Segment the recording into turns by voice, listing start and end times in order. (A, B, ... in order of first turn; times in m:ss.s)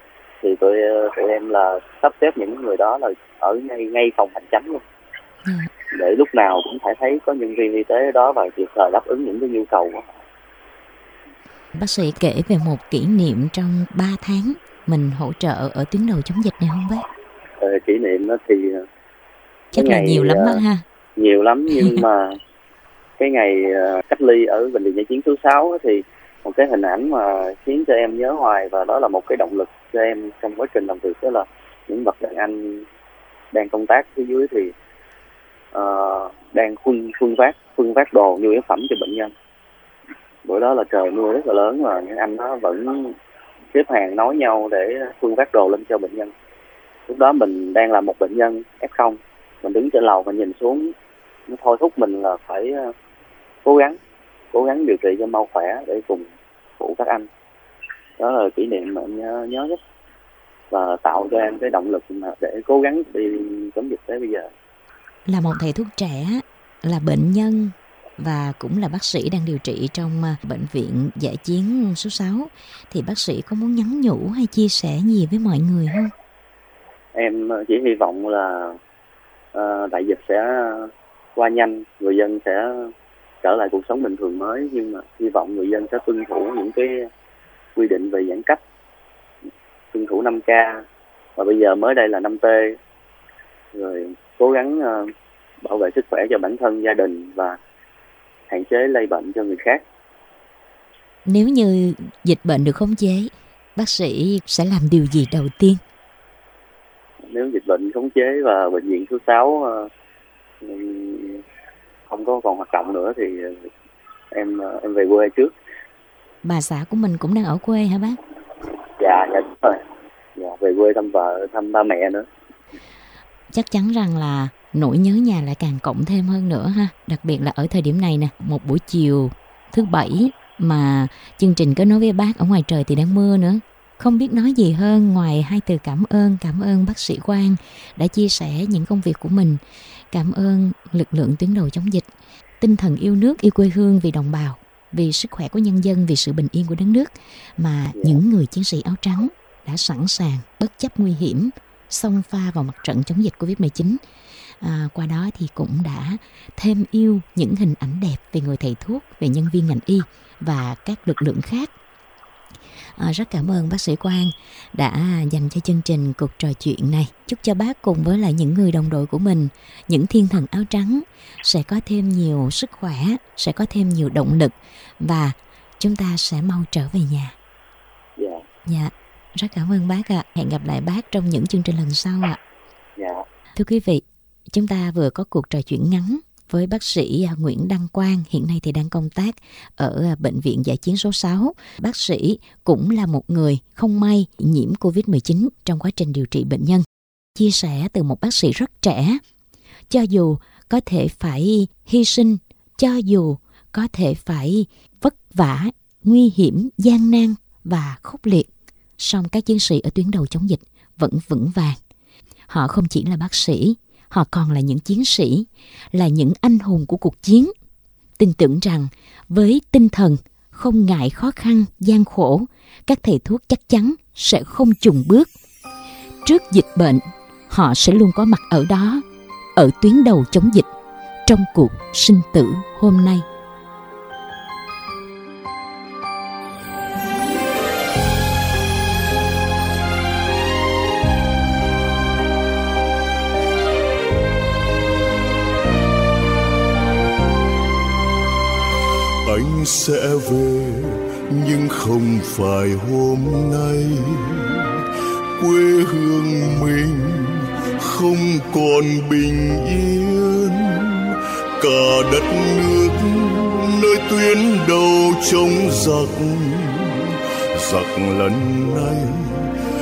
0:00.4-0:04.8 A
0:05.4-0:05.7 B
0:05.9-0:10.2 A
0:11.8-0:17.0 B
0:17.6-0:18.8 A
0:19.7-0:20.6 A
0:19.7-0:20.8 B
0:21.2-0:22.4 A
0:21.7-0:22.0 B
0:23.2-0:32.8 A
0:33.5-0:34.7 A
0:35.7-0:39.3 A
0:40.4-0:43.1 A
0:43.7-0:46.3 A
0:47.1-0:50.9 A
0:51.5-0:52.9 A
0:53.6-0:54.0 A
0:54.5-0:56.2 A
0:56.8-0:57.3 A
0:58.2-0:59.8 A
1:00.7-1:04.5 A
1:05.2-1:16.1 B
1:17.1-1:18.8 A
1:19.5-1:22.9 A
1:23.4-1:27.1 A
1:27.8-1:28.6 A
1:29.9-1:30.8 A
1:31.4-1:32.8 A
1:33.7-1:35.1 A
1:35.6-1:37.6 A
1:38.5-1:39.8 A
1:41.2-1:45.8 B
1:47.3-1:49.9 A
1:50.6-1:51.4 A
1:52.1-1:53.5 A
1:54.3-1:55.5 A
1:56.4-1:58.2 B
1:59.0-1:59.8 A
2:00.4-2:02.2 A
2:03.5-2:19.6 B
2:20.1-2:22.1 B
2:22.6-2:34.0 B
2:34.6-2:41.7 B
2:43.0-2:57.3 B
2:58.7-3:02.4 B
3:03.0-3:03.2 A
3:03.6-3:16.8 B
3:17.4-3:19.2 B
3:19.9-3:31.8 B
3:32.5-3:37.5 B
3:38.2-3:45.3 B
3:46.2-3:49.0 B
3:49.6-3:50.7 B
3:51.2-3:53.2 B
4:09.2-4:14.8 C
4:15.4-4:29.5 C